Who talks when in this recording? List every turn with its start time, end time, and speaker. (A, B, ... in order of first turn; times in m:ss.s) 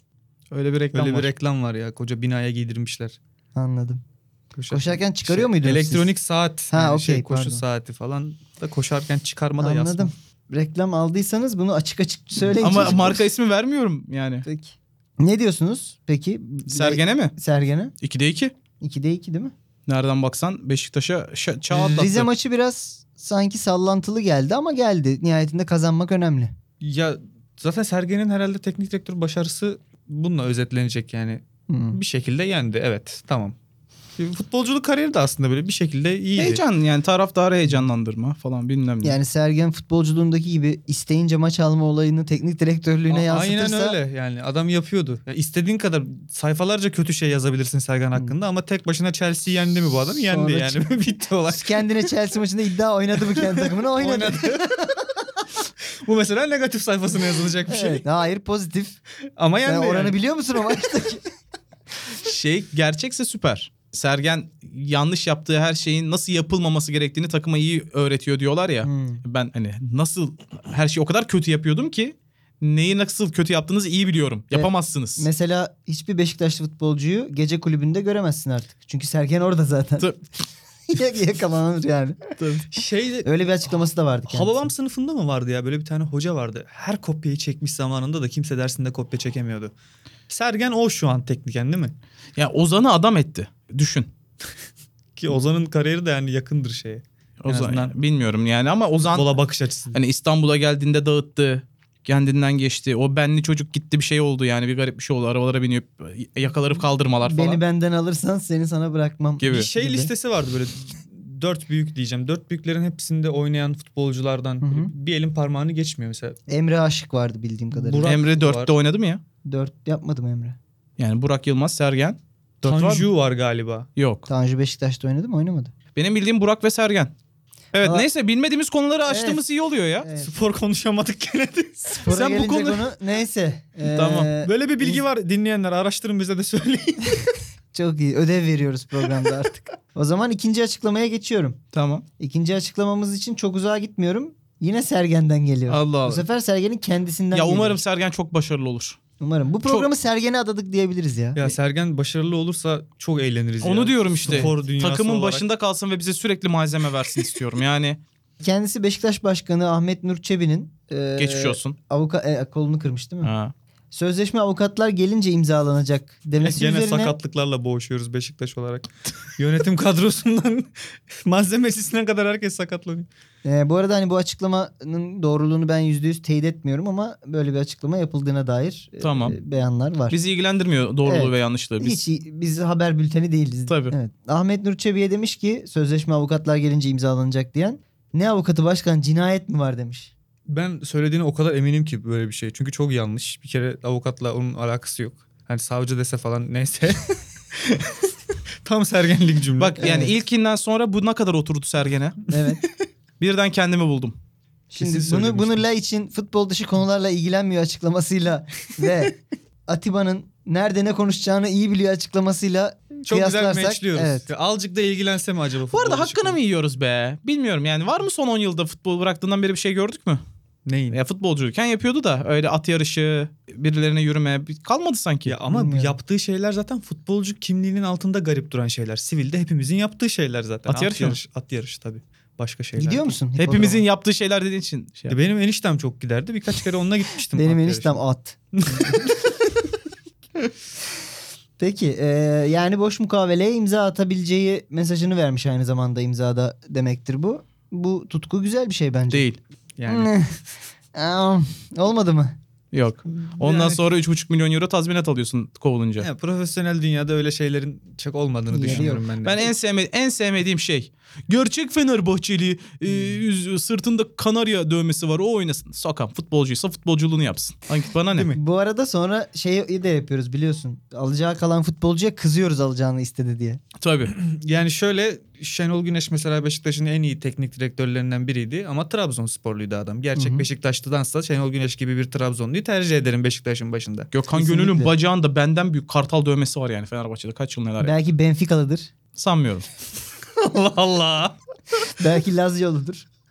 0:00.5-0:01.3 A
0:00.9-0:03.2 B
0:03.6-0:04.0 C
0:04.5-0:10.1 B
0:04.7-0:06.1 C
0:06.7-0:07.6 C
0:09.6-0:13.2 C
0:12.6-0:14.4 A
0:14.4-0:17.9 C
0:16.7-0:17.3 A
0:18.0-0:18.5 A
0:18.8-0:19.5 C
0:19.9-0:22.3 A
0:21.7-0:26.5 C
0:26.8-0:33.6 B
0:31.7-0:32.0 C
0:34.2-0:36.6 B
0:36.4-0:39.2 A
0:39.0-0:44.0 C
0:43.1-0:51.9 B
0:50.3-0:50.8 C
0:51.5-0:55.0 C
0:53.4-0:54.8 B
0:56.0-0:58.0 B
0:57.7-0:59.0 C
0:59.4-1:00.2 B
0:59.7-1:01.2 C
1:02.2-1:15.3 A
1:08.8-1:09.2 C
1:14.5-1:20.1 C
1:20.9-1:22.3 C
1:22.4-1:22.6 A
1:22.7-1:23.3 B
1:23.2-1:24.7 C
1:24.3-1:29.7 B
1:30.3-1:32.0 B
1:32.4-1:34.1 A
1:35.2-1:38.0 B
1:37.4-1:39.4 A
1:39.1-1:40.0 B
1:39.9-1:47.6 A
1:47.2-1:50.1 C
1:49.4-1:49.7 A
1:49.4-1:56.4 B
1:54.6-1:54.9 C
1:56.5-1:58.1 C
1:57.7-1:58.7 B
1:58.0-1:59.2 A
1:59.4-2:00.6 C
2:01.0-2:03.1 A
2:02.6-2:03.9 B
2:04.0-2:04.3 A
2:04.3-2:05.7 C
2:06.0-2:07.1 A
2:07.7-2:10.1 A
2:07.8-2:08.1 C
2:09.1-2:09.4 C
2:10.0-2:10.3 C
2:10.2-2:12.0 B
2:11.8-2:15.0 C
2:12.1-2:12.9 A
2:13.9-2:14.3 A
2:14.4-2:17.2 B
2:17.7-2:21.6 C
2:21.7-2:22.0 A
2:22.2-2:27.8 C
2:25.7-2:26.2 A
2:27.3-2:29.0 A
2:29.2-2:31.4 C
2:31.4-2:35.5 B
2:33.6-2:38.0 A
2:34.3-2:34.5 C
2:38.4-2:43.3 C
2:41.2-2:41.8 A
2:43.2-2:43.5 A
2:43.9-2:47.2 C
2:46.4-2:53.1 B
2:53.4-3:00.2 C
2:59.0-2:59.4 A
3:00.1-3:02.0 A
3:01.0-3:10.1 C
3:03.7-3:03.9 A
3:10.5-3:17.9 B
3:18.6-3:19.9 B
3:19.6-3:22.2 A
3:19.8-3:20.1 C
3:22.3-3:22.6 C
3:23.2-3:24.2 A
3:24.7-3:34.3 C
3:24.8-3:25.6 B
3:33.0-3:36.4 B
3:35.7-3:40.2 A
3:40.6-3:41.0 B
3:40.9-3:45.4 A
3:45.3-3:53.2 B
3:45.5-3:46.0 C
3:50.7-3:51.2 A
3:52.8-3:53.8 C
3:53.4-3:55.2 A
3:55.1-3:58.0 B
3:57.4-3:58.8 C
3:58.6-3:59.3 B
4:01.6-4:09.3 C
4:09.1-4:09.4 A
4:09.8-4:10.1 B
4:09.9-4:10.4 C
4:10.9-4:12.4 C
4:12.7-4:16.1 A
4:13.2-4:13.8 B
4:16.0-4:19.5 B
4:18.5-4:19.1 C
4:18.7-4:28.3 A
4:28.1-4:28.4 B
4:28.3-4:33.6 C
4:33.8-4:34.1 A
4:34.1-4:44.1 B
4:40.2-4:40.4 C
4:44.1-4:48.0 A
4:44.3-4:44.9 C
4:47.8-4:48.9 C
4:49.2-4:49.7 A
4:50.4-4:51.4 B
4:52.0-4:53.0 C